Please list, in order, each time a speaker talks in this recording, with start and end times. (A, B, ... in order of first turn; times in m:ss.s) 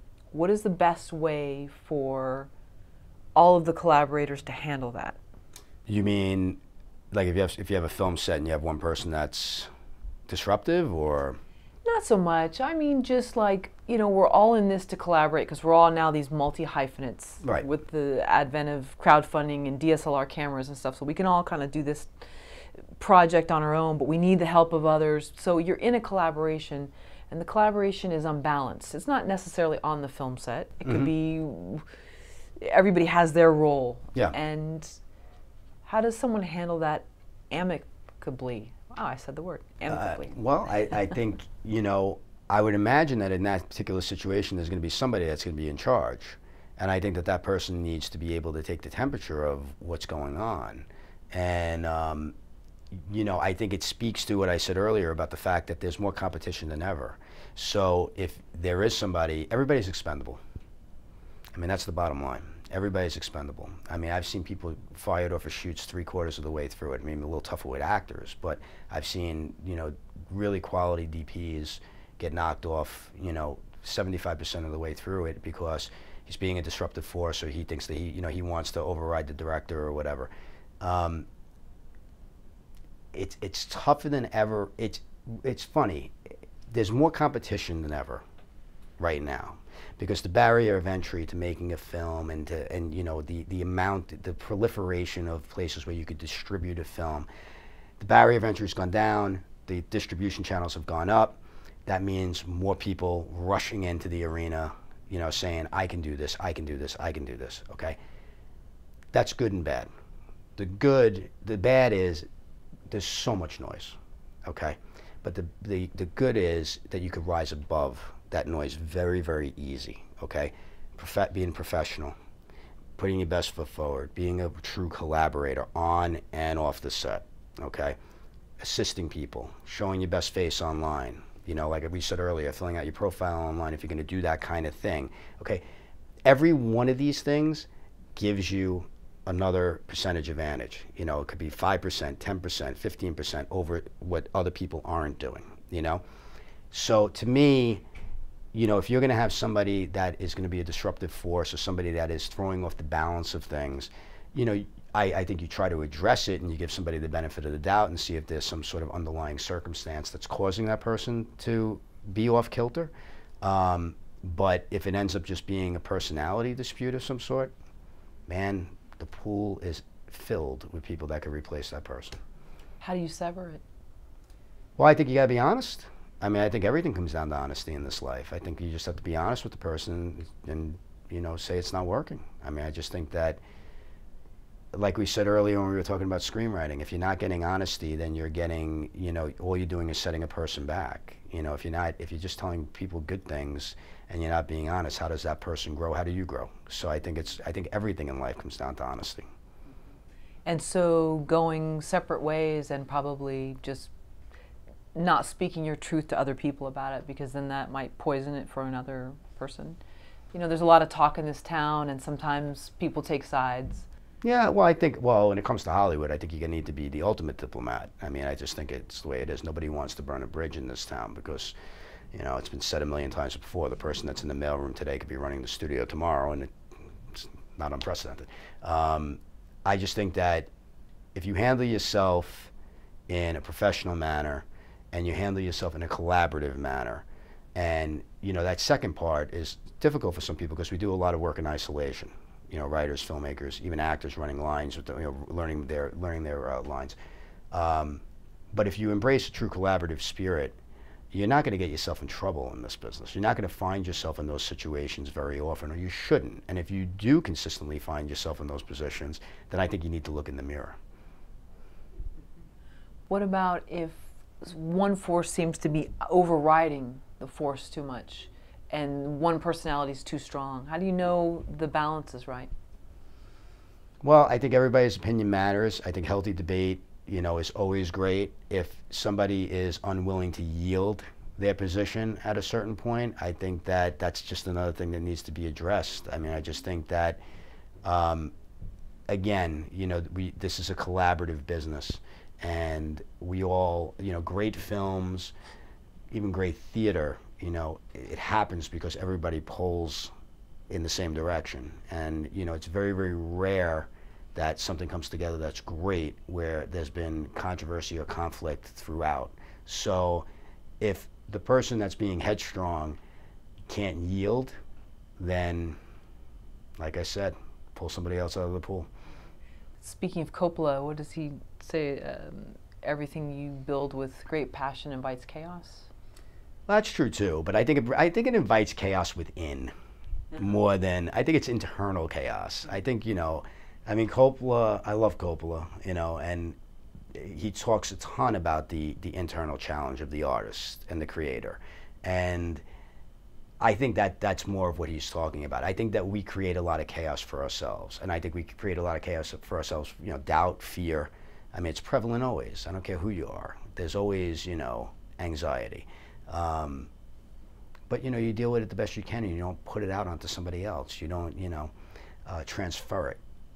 0:00.3-0:02.5 A
0:03.3-0:05.2 A
0:05.9-0:06.6 B
0:07.1-0:09.7 B
0:10.3-0:11.4 B
0:11.8-0:22.1 A
0:23.0-0:31.8 A
0:30.8-0:31.1 B
0:32.6-0:35.0 A
0:35.8-0:40.3 A
0:39.9-0:52.3 B
0:52.9-1:00.4 B
1:01.5-1:20.3 B
1:20.8-1:21.3 B
1:23.1-1:26.2 B
1:26.7-1:28.2 B
1:29.0-1:37.3 B
1:38.0-1:48.0 B
1:49.1-1:49.9 B
1:50.6-1:52.2 B
1:52.9-2:02.1 B
2:03.0-2:08.0 B
2:08.6-2:15.6 B
2:16.2-2:26.0 B
2:26.7-2:27.8 B
2:28.5-2:47.5 B
2:48.3-2:52.2 B
2:52.8-2:53.6 A
2:54.8-3:03.4 B
3:04.7-3:19.2 B
3:20.4-3:23.9 A
3:24.9-3:29.8 A
3:30.3-3:33.8 A
3:34.2-3:41.5 B
3:42.1-3:46.5 B
3:47.1-3:50.5 B
3:51.1-3:52.5 B
3:53.1-4:07.0 B
4:07.5-4:08.0 B
4:08.5-4:10.6 B
4:11.1-4:20.8 B
4:23.1-4:32.5 A
4:34.0-4:47.2 B
4:47.8-4:48.3 B
4:49.1-4:55.3 B
4:56.1-5:00.1 B
5:00.7-5:10.2 B
5:10.8-5:13.0 B
5:13.7-5:14.5 B
5:15.2-5:15.8 B
5:16.8-5:18.9 B
5:19.8-5:25.9 A
5:26.7-5:29.7 B
5:30.3-5:36.6 B
5:37.1-5:42.6 B
5:43.6-5:56.9 B
5:57.9-6:01.7 B
6:02.2-6:03.2 B